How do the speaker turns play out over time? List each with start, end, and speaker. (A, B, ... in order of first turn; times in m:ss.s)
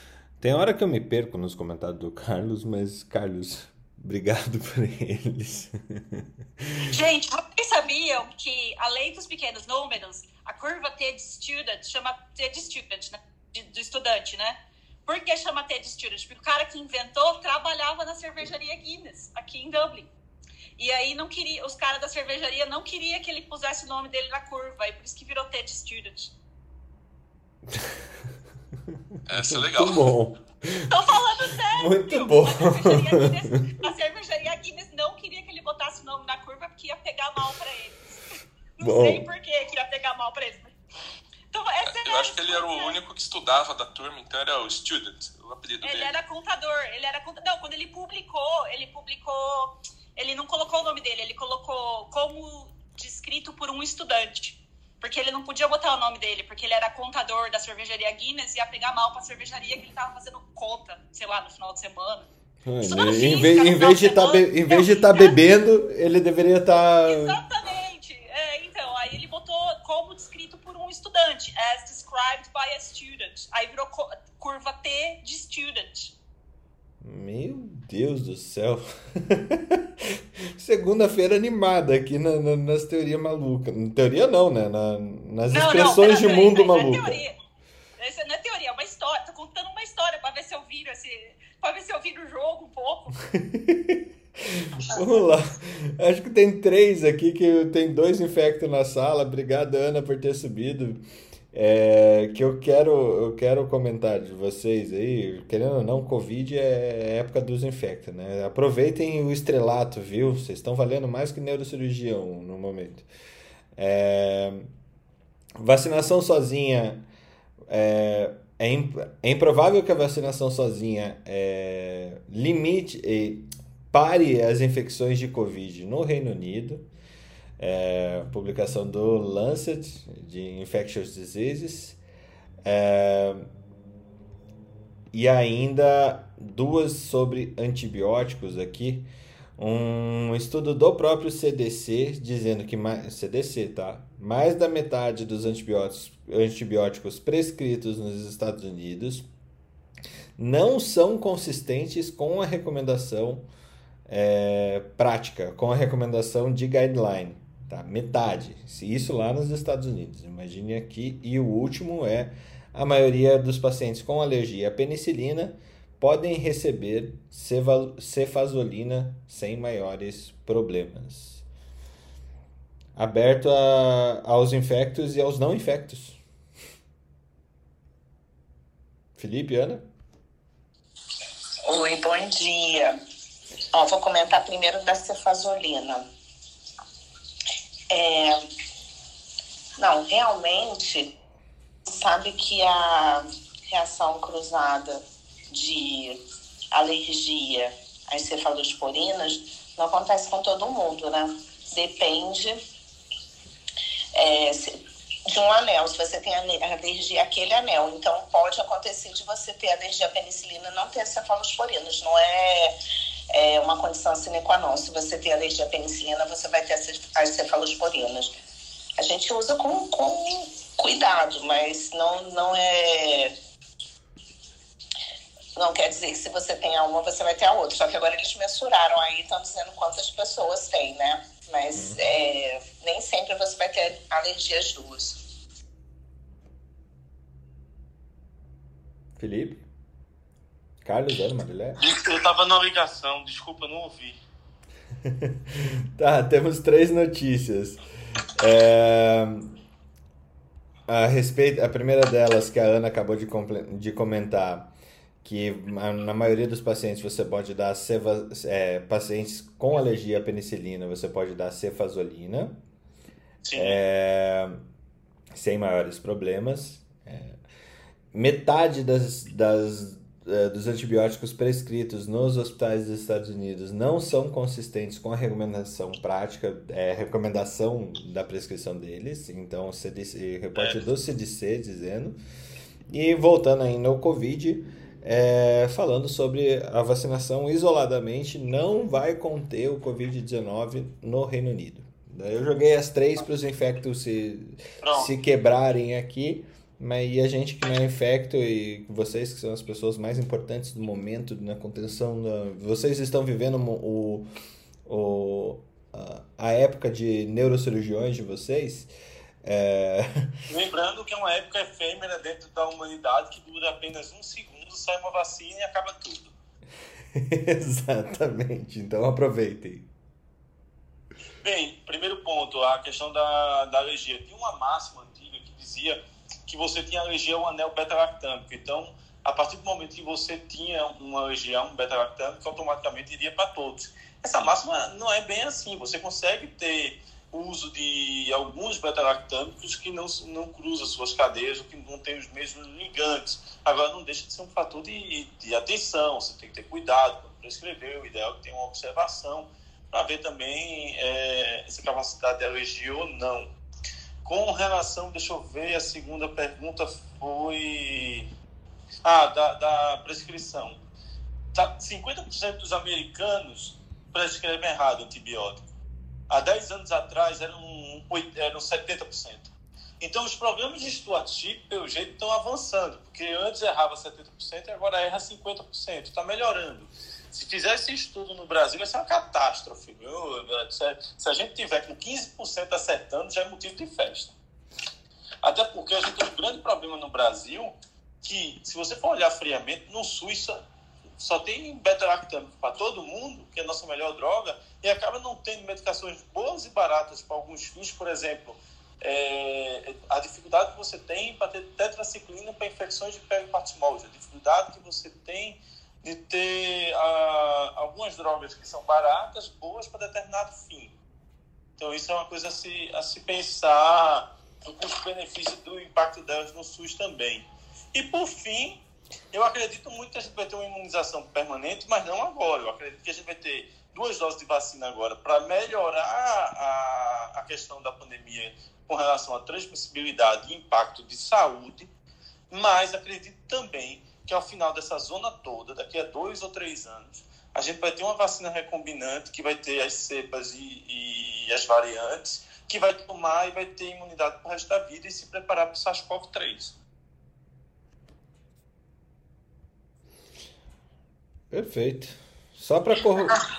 0:00.4-0:06.9 A
0:06.8-0:20.1 B
0:20.8-0:26.3 B
0:29.3-0:30.1 C
0:29.3-0:30.9 A
0:30.9-0:38.0 B
0:31.7-0:33.6 A
0:38.8-0:40.7 B
0:38.8-0:39.3 A
0:41.5-0:43.0 B
0:42.0-0:46.1 C
0:45.8-1:02.3 B
1:02.6-1:07.4 A
1:02.8-1:05.4 B
1:07.0-1:16.1 B
1:17.0-1:27.2 A
1:25.5-1:27.4 B
1:28.0-1:33.2 B
1:33.4-1:34.0 A
1:34.6-1:53.1 A
1:53.8-1:54.7 A
1:55.6-1:57.1 A
1:57.7-2:06.9 A
2:07.6-2:12.0 A
2:12.6-2:13.5 A
2:15.1-2:29.3 A
2:30.4-2:33.5 A
2:34.1-2:51.4 A
2:53.0-2:56.2 A
2:59.2-2:59.9 A
3:01.7-3:02.9 D
3:03.7-3:06.1 D
3:07.9-3:08.4 D
3:09.8-3:11.1 D
3:11.9-3:16.2 D
3:16.7-3:22.6 D
3:24.2-3:24.7 D
3:25.3-3:32.8 D
3:33.3-3:38.3 D
3:39.0-3:43.3 D
3:45.6-3:55.2 D
3:51.8-3:52.0 A
3:59.2-3:59.6 A
4:00.8-4:01.8 A
4:01.8-4:04.2 E
4:05.0-4:09.6 A
4:10.9-4:14.7 A
4:15.2-4:22.6 A
4:23.4-4:23.8 E
4:23.5-4:24.6 A
4:25.3-4:27.4 A
4:28.1-4:42.2 A
4:40.6-4:40.8 E
4:42.9-5:04.3 A
4:54.8-4:55.1 E
5:04.9-5:08.9 A
5:09.4-5:10.3 A
5:10.5-5:16.3 E
5:17.1-5:19.9 A
5:21.4-5:53.5 E
5:54.2-5:58.3 E
5:59.0-6:00.8 E
6:01.5-6:05.6 E
6:06.3-6:24.3 E
6:25.4-6:30.6 E
6:31.2-6:50.9 E
6:51.8-6:58.8 E
6:59.3-7:11.9 E
7:12.5-7:26.8 E
7:31.5-7:33.4 A